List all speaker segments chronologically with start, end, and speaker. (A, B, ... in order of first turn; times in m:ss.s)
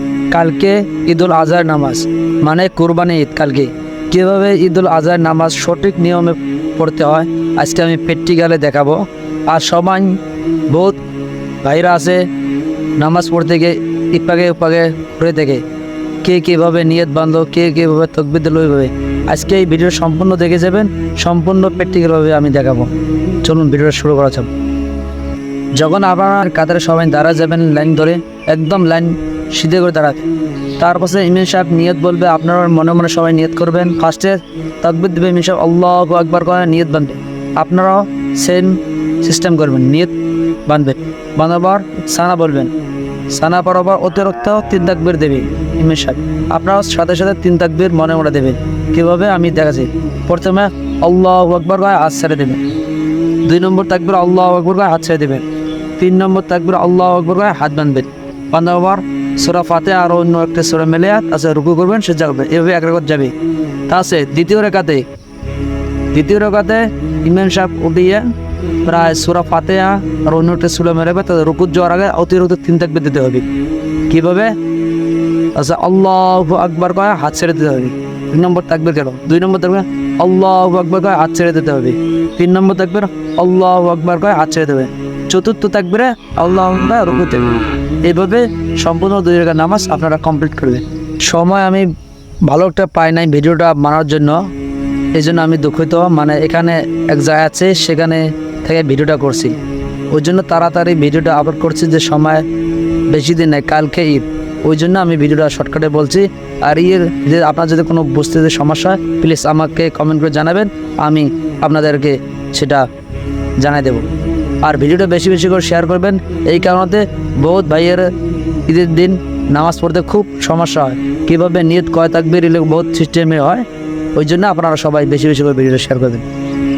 0:00.3-0:10.2 A
0:10.7-0:11.0 A
0:11.6-0:12.2 A
0:13.0-0:15.6 A
0:16.2-0:22.9 A
0:23.4-0:24.5 A
0:25.8-0:30.2 A
0:30.8-0:40.1 A
0:40.6-0:42.7 A
0:43.3-0:52.6 A
0:53.4-0:55.4 A
0:56.0-1:03.3 A
1:03.9-1:05.0 A
1:06.1-1:08.2 A
1:08.8-1:13.4 A
1:14.1-1:14.5 A
1:15.5-1:27.5 A
1:28.0-1:31.9 A
1:32.5-1:34.4 A
1:35.1-1:39.6 A
1:40.1-1:42.4 A
1:43.1-1:52.8 A
1:53.6-1:54.1 A
1:54.6-1:58.1 A
1:58.7-2:06.2 A